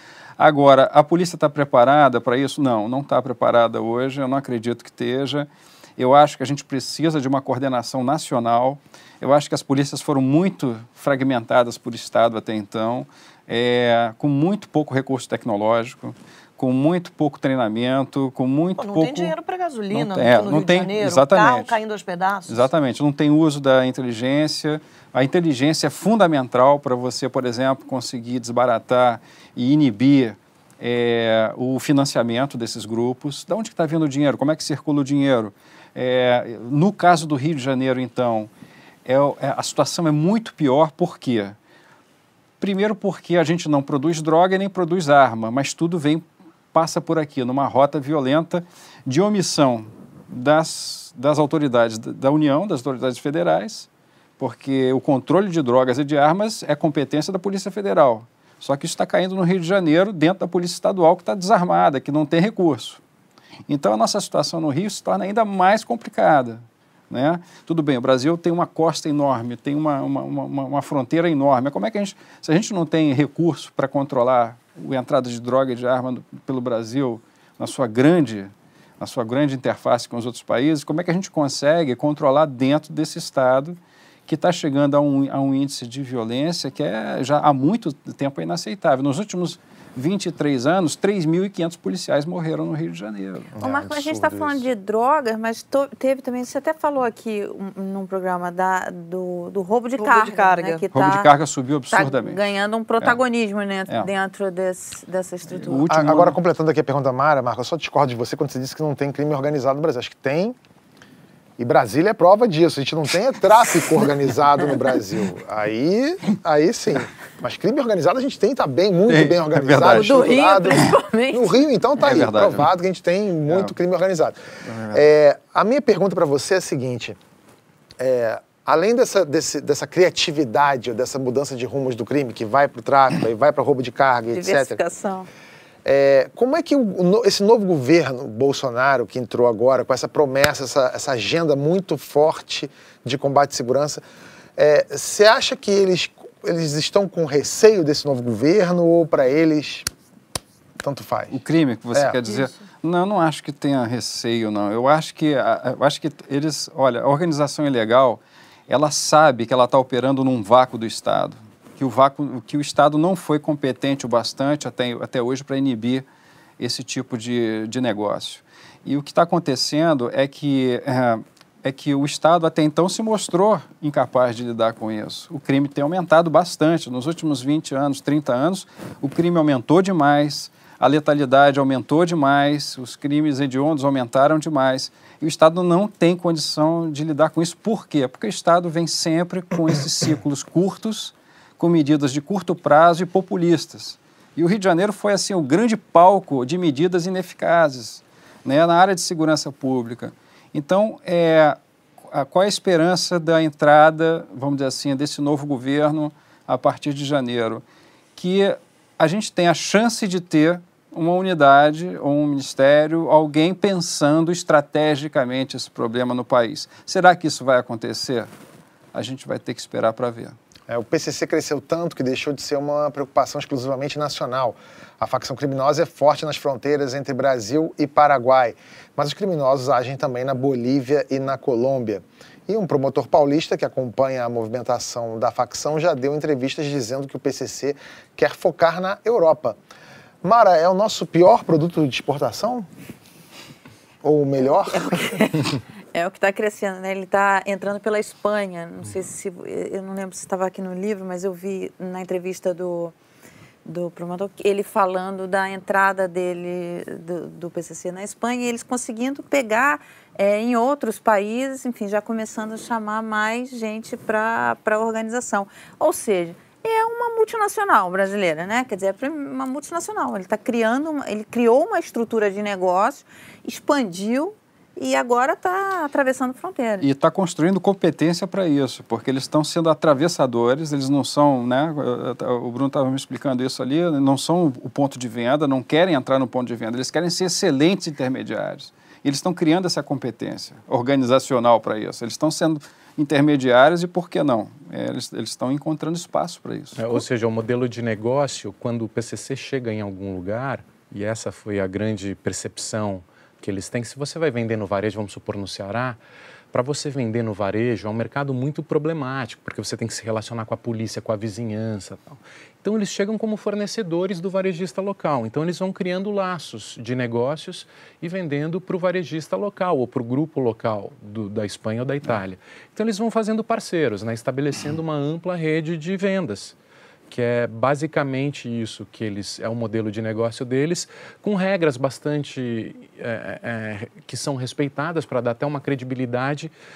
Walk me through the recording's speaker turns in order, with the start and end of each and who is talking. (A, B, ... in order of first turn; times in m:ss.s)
0:00.4-0:19.3 A
0:18.8-0:22.6 B
0:19.9-0:21.7 A
0:22.5-0:38.5 A
0:39.0-0:41.6 A
0:42.6-0:53.9 A
0:54.4-1:03.0 A
1:03.7-1:33.5 A
1:33.5-1:34.7 C
1:33.6-1:41.3 D
1:40.0-1:40.8 B
1:40.9-1:43.2 A
1:41.9-1:46.0 D
1:45.5-1:46.4 A
1:45.9-1:50.6 C
1:51.6-2:07.2 C
1:59.1-2:00.9 A
1:59.8-2:01.5 D
2:02.0-2:02.7 A
2:03.5-2:03.7 A
2:04.6-2:05.0 A
2:08.0-2:14.8 C
2:14.3-2:15.3 D
2:15.8-2:24.0 C
2:24.6-2:29.9 C
2:30.8-2:31.4 C
2:31.3-2:46.0 A
2:31.9-2:32.2 C
2:46.6-3:21.6 A
3:22.1-3:27.6 A
3:28.2-3:38.3 A
3:38.9-3:40.4 A
3:40.7-3:59.6 C
4:00.2-4:02.7 C
4:04.0-4:05.3 C
4:04.7-4:12.9 D
4:13.6-4:36.8 D
4:36.8-4:57.0 A
4:56.8-5:06.0 E
5:06.5-5:26.5 E
5:27.1-5:36.5 E